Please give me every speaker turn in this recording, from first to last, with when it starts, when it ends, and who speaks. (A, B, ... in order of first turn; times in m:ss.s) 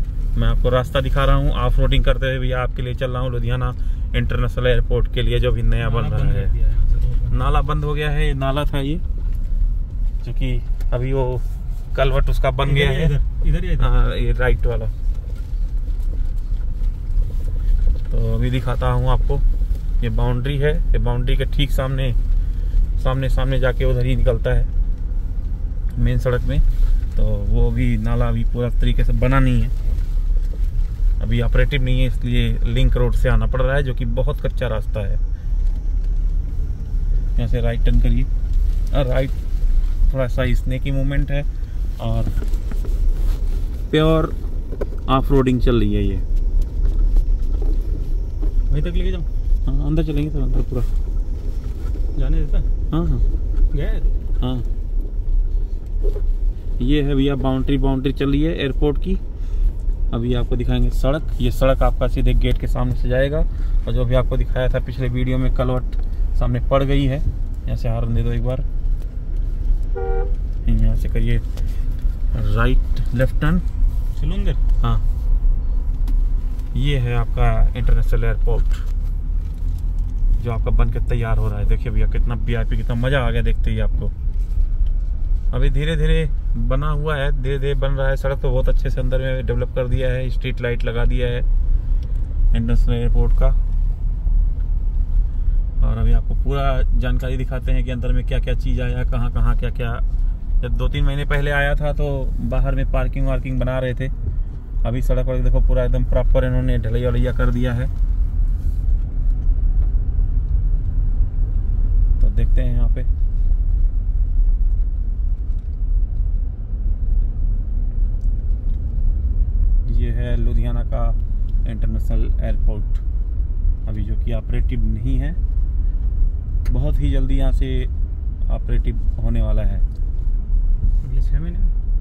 0:00.4-0:06.5 A
0:05.8-0:07.6 B
0:07.3-0:09.0 A
0:10.2-0:13.2 A
0:12.6-0:13.9 B
0:13.8-0:14.9 A
0:18.1-0:19.4 A
0:20.0-0:22.2 A
0:23.0-0:24.7 A
0:25.9-0:29.7 A
0:31.2-0:35.2 A
0:37.4-0:38.3 A
0:38.9-0:39.4 A
0:40.0-0:42.4 A
0:43.9-0:44.4 A
0:45.1-0:46.3 A
0:48.7-0:49.3 B
0:49.7-0:50.9 A
0:52.2-0:52.7 B
0:52.9-0:53.3 A
0:53.7-0:54.2 B
0:54.4-0:54.7 A
0:56.8-0:59.2 A
1:00.1-1:08.7 A
1:10.6-1:11.4 A
1:12.3-1:13.6 A
1:14.2-1:14.6 B
1:16.7-1:18.9 A
1:20.4-1:24.1 A
1:25.5-1:31.5 A
1:32.5-1:33.6 A
1:35.8-1:40.0 A
1:40.6-1:44.1 A
1:44.8-1:47.9 A
1:52.2-1:53.1 A
1:59.8-2:03.0 A
2:03.8-2:05.4 A
2:06.7-2:07.9 A
2:08.5-2:09.8 A
2:11.0-2:11.8 B